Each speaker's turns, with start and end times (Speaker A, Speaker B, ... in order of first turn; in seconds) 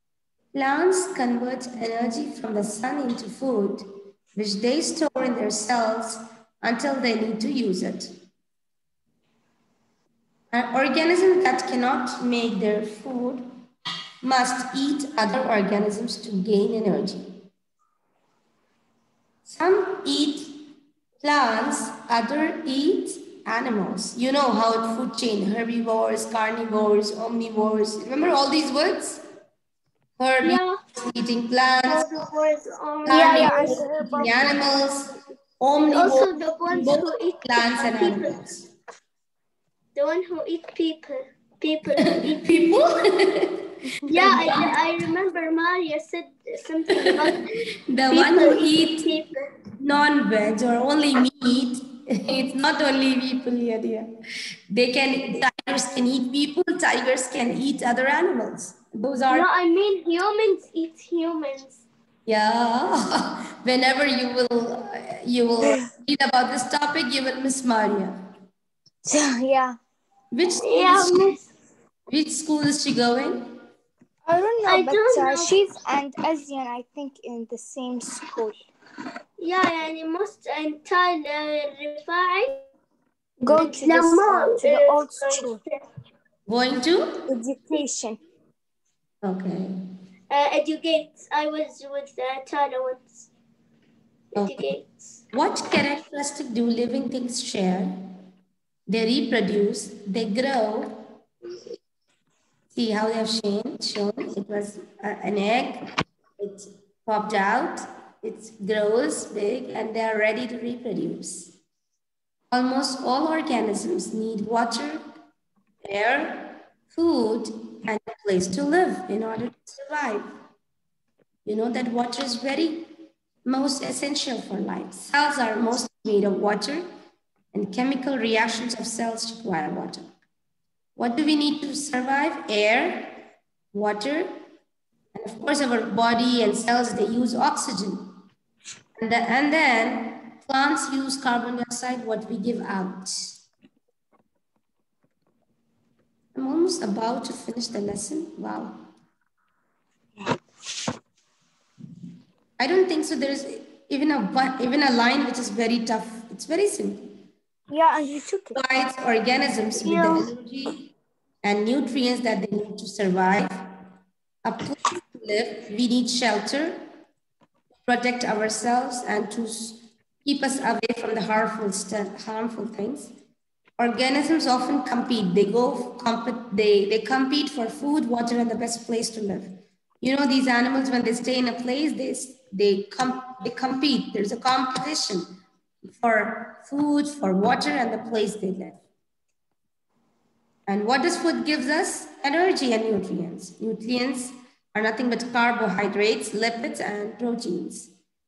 Speaker A: 0.5-8.1, 10.5-13.5, 14.2-17.4, 19.4-20.7, 21.2-29.2, 30.2-32.0, 33.0-38.7, 42.1-44.6, 46.9-49.1, 49.8-54.1, 54.7-59.5, 62.2-68.2, 70.3-71.3, 72.1-73.5, 86.5-87.2, 89.2-89.7, 95.3-98.1, 98.9-101.1, 102.7-105.8, 106.4-111.6, 112.5-115.0, 115.8-120.3, 121.5-122.9, 123.4-126.8, 127.5-130.1, 130.9-133.2, 133.7-134.3, 135.1-138.1, 139.0-143.1, 146.3-148.8, 152.6-157.2, 158.5-160.9, 161.4-163.7, 164.4-166.8, 167.8-173.1, 173.8-185.2, 185.8-188.8, 190.7-197.9
Speaker B: 30.4-30.8, 31.8-33.8, 35.8-38.4, 39.9-43.0, 44.1-47.5, 48.1-49.5, 59.3-61.8, 70.6-71.5, 74.6-75.6, 79.4-82.6, 83.4-85.8, 90.3-93.3, 94.3-95.2, 159.8-160.2
Speaker C: 33.1-34.7, 44.1-44.4, 69.0-69.8, 74.2-78.7, 83.4-85.6, 87.3-88.2, 157.7-158.6